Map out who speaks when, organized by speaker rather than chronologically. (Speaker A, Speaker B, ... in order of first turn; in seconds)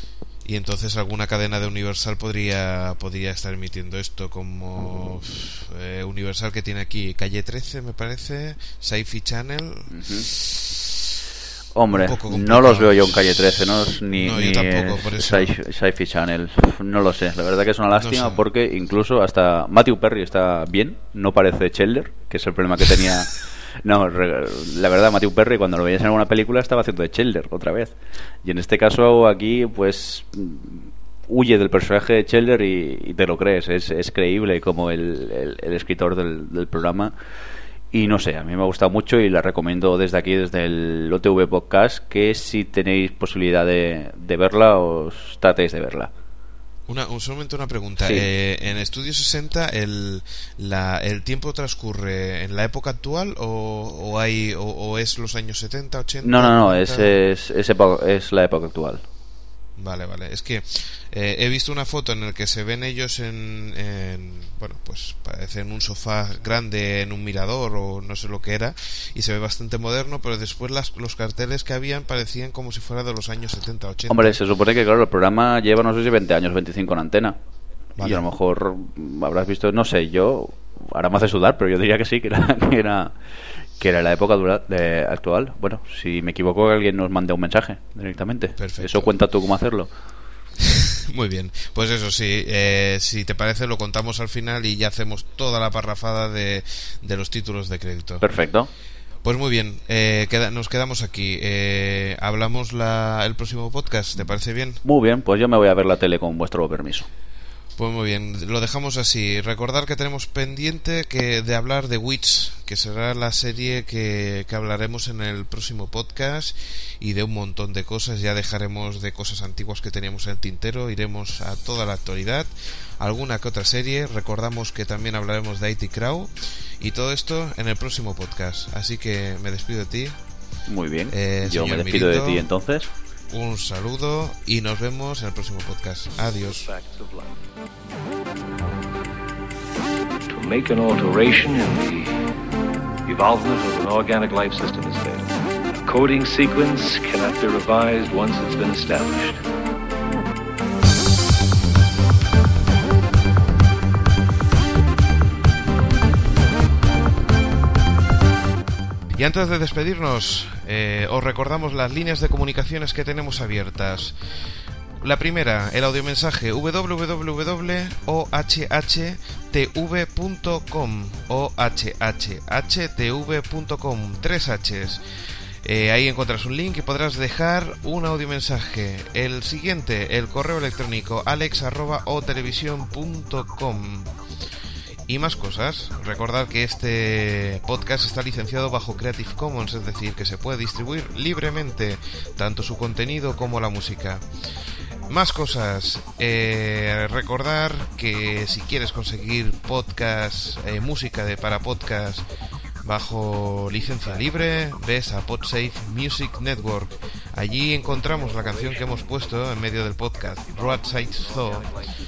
Speaker A: 0.4-9.9, 11.9-15.5, 17.9-18.4, 46.9-57.2, 59.8-74.4, 78.0-78.2, 88.6-89.1, 90.6-98.3, 99.2-104.8, 107.8-130.2, 131.1-132.5, 133.3-136.7, 159.1-164.2, 165.0-175.0, 175.6-184.1, 185.1-194.2, 195.1-202.2, 202.8-211.8
Speaker B: 9.9-10.3, 11.7-37.1, 37.9-46.1, 56.2-59.0, 74.1-77.4, 78.0-83.1, 83.8-89.9, 98.2-98.7, 104.8-107.1, 130.7-132.9
Speaker C: 136.5-137.3, 140.3-142.2, 143.1-149.4, 210.5-211.9